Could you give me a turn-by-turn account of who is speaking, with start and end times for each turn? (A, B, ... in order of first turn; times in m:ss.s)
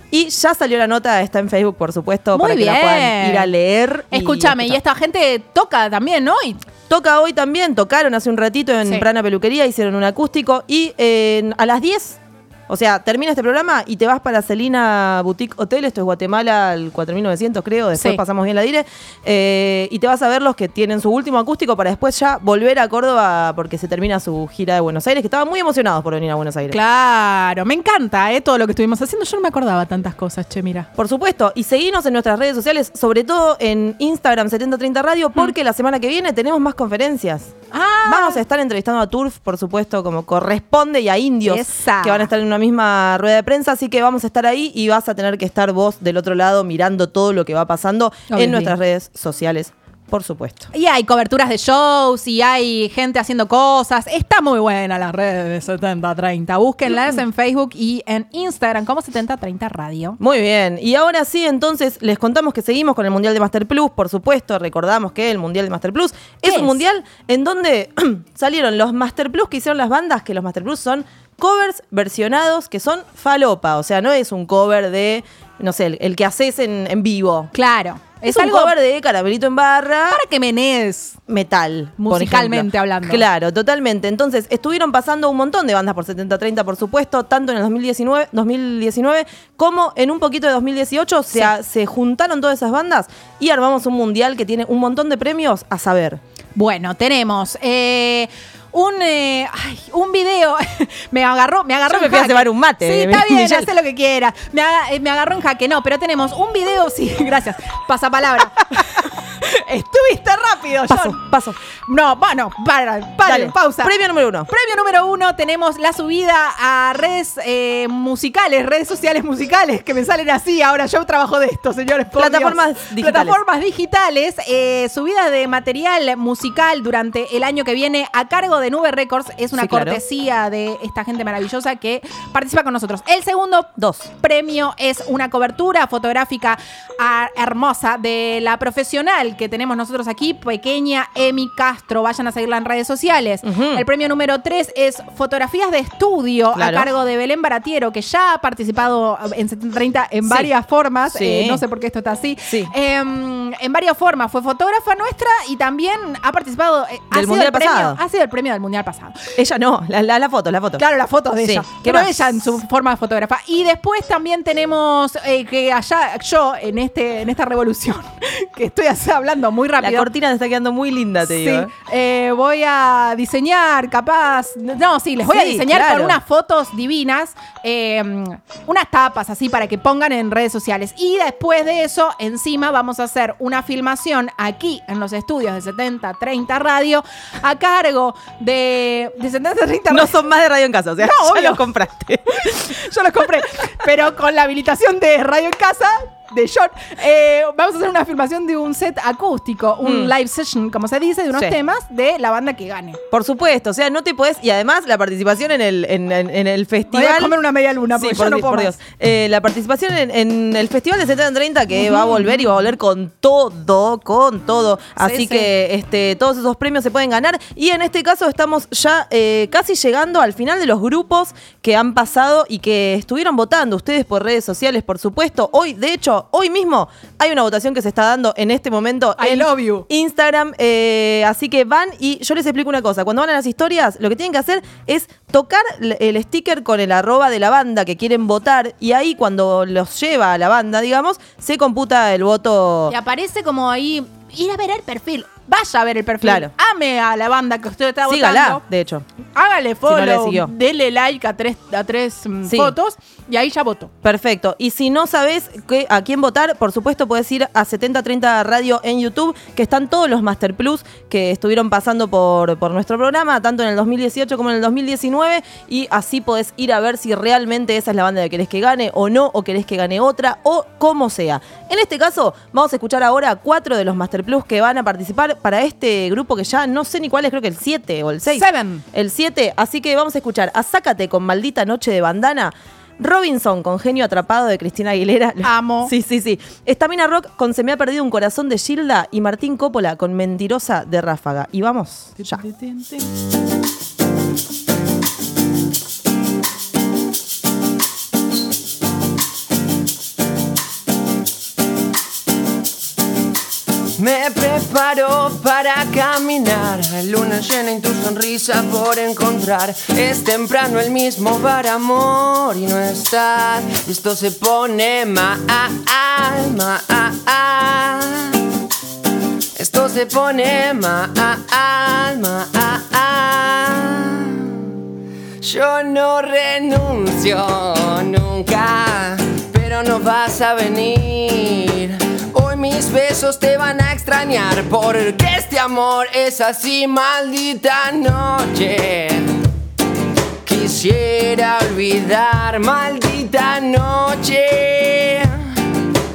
0:00.1-0:04.8 A
0:02.3-0:03.5 B
0:04.1-0:06.6 B
0:06.9-0:26.8 A
0:18.0-0:18.2 B
0:26.7-0:30.9 B
0:31.0-0:37.5 A
0:37.7-0:38.4 B
0:38.1-0:50.7 A
0:41.4-0:42.3 B
0:48.3-0:48.7 B
0:50.7-1:00.2 B
1:00.2-1:17.5 A
1:06.4-1:06.8 B
1:17.5-1:18.7 B
1:18.2-1:20.2 A
1:20.1-1:21.2 B
1:21.3-1:36.2 A
1:22.0-1:23.2 B
1:36.6-1:51.2 B
1:41.9-1:43.7 A
1:50.9-1:51.6 A
1:51.8-1:53.9 B
1:53.2-1:54.5 A
1:54.5-2:39.2 B
2:02.2-2:03.4 A
2:09.6-2:10.0 A
2:13.8-2:14.1 A
2:23.4-2:23.8 A
2:26.6-2:26.9 A
2:30.2-2:30.5 A
2:31.1-2:31.6 A
2:37.1-2:38.0 A
2:39.4-2:40.8 A
2:40.8-2:50.1 B
2:41.4-2:42.3 A
2:49.8-2:51.7 A
2:51.2-3:10.2 B
2:55.2-2:56.2 A
3:09.9-3:12.4 A
3:11.0-3:11.8 B
3:12.2-3:23.0 B
3:19.8-3:20.1 A
3:23.1-3:27.3 A
3:26.9-3:28.8 B
3:27.9-4:02.9 A
3:31.8-3:32.4 B
3:35.0-3:35.5 B
3:49.2-3:49.9 B
4:02.9-4:08.6 B
4:06.2-4:06.5 A
4:08.1-4:09.0 A
4:09.3-4:13.9 B
4:09.9-4:10.5 A
4:12.5-4:12.7 A
4:14.0-4:52.4 A
4:38.3-4:38.8 B
4:45.4-4:45.9 B
4:52.3-4:53.0 B
5:04.0-5:18.4 C
5:19.6-5:24.5 C
5:25.4-5:39.3 C
5:40.4-5:45.3 C